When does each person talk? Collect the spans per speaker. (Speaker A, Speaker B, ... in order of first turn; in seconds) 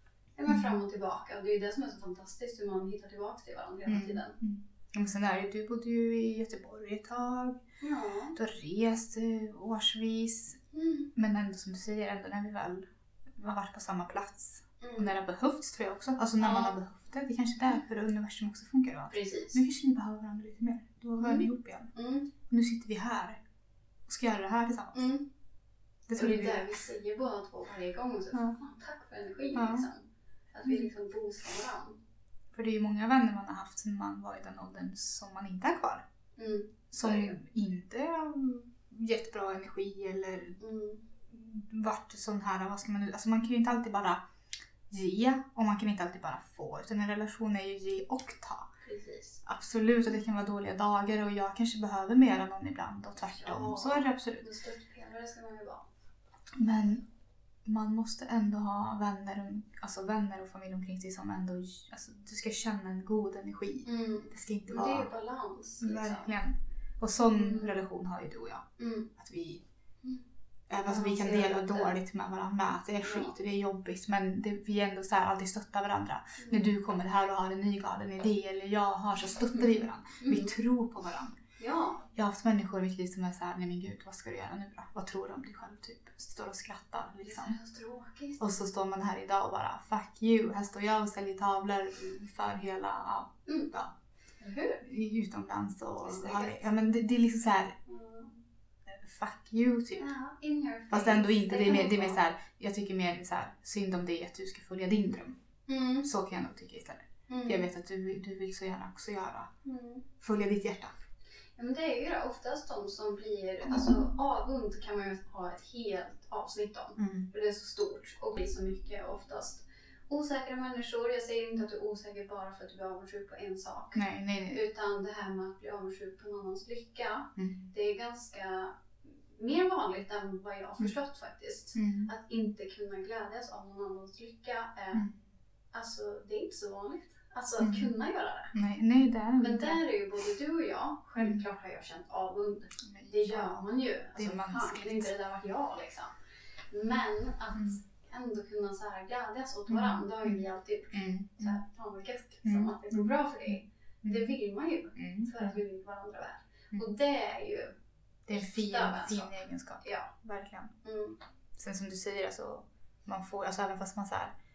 Speaker A: 0.4-4.4, 7.8-8.4, 10.7-11.1, 14.8-15.2, 16.4-16.8, 19.1-19.6, 21.2-22.3, 24.9-25.3, 26.2-32.0, 36.4-37.4, 40.6-41.0, 48.9-49.4, 53.2-55.9, 63.9-66.3, 67.3-67.8, 68.8-69.1, 70.8-72.0, 73.0-73.3, 76.4-76.7, 80.2-80.5, 81.6-82.0, 87.2-88.4, 93.5-93.7, 94.4-94.8, 96.0-96.7, 97.9-98.3, 100.0-102.2, 105.7-106.1, 107.3-107.7, 109.7-110.1, 111.6-135.1, 135.7-138.5, 139.4-146.1, 146.7-157.7, 158.3-160.1, 160.8-161.2
Speaker B: 0.5-0.8, 3.9-7.6, 8.3-10.6, 11.2-21.9, 22.5-23.4, 24.1-25.0, 26.1-26.8, 29.6-29.9, 32.5-36.0, 36.9-40.6, 41.3-44.2, 44.9-48.7, 49.5-54.5, 56.6-57.0, 57.7-65.1, 65.8-69.6, 70.7-81.4, 82.2-87.6, 88.4-93.9, 94.8-97.8, 98.9-100.1, 100.9-105.4, 106.0-109.5, 110.2-111.0, 113.7-114.0, 117.0-117.3, 124.0-124.6, 127.4-127.7, 131.8-132.1, 134.9-135.2, 137.6-137.9, 138.5-139.8, 141.2-141.4, 142.8-145.1, 149.7-151.6, 152.4-154.3, 155.0-155.6, 158.3-160.7, 161.6-164.3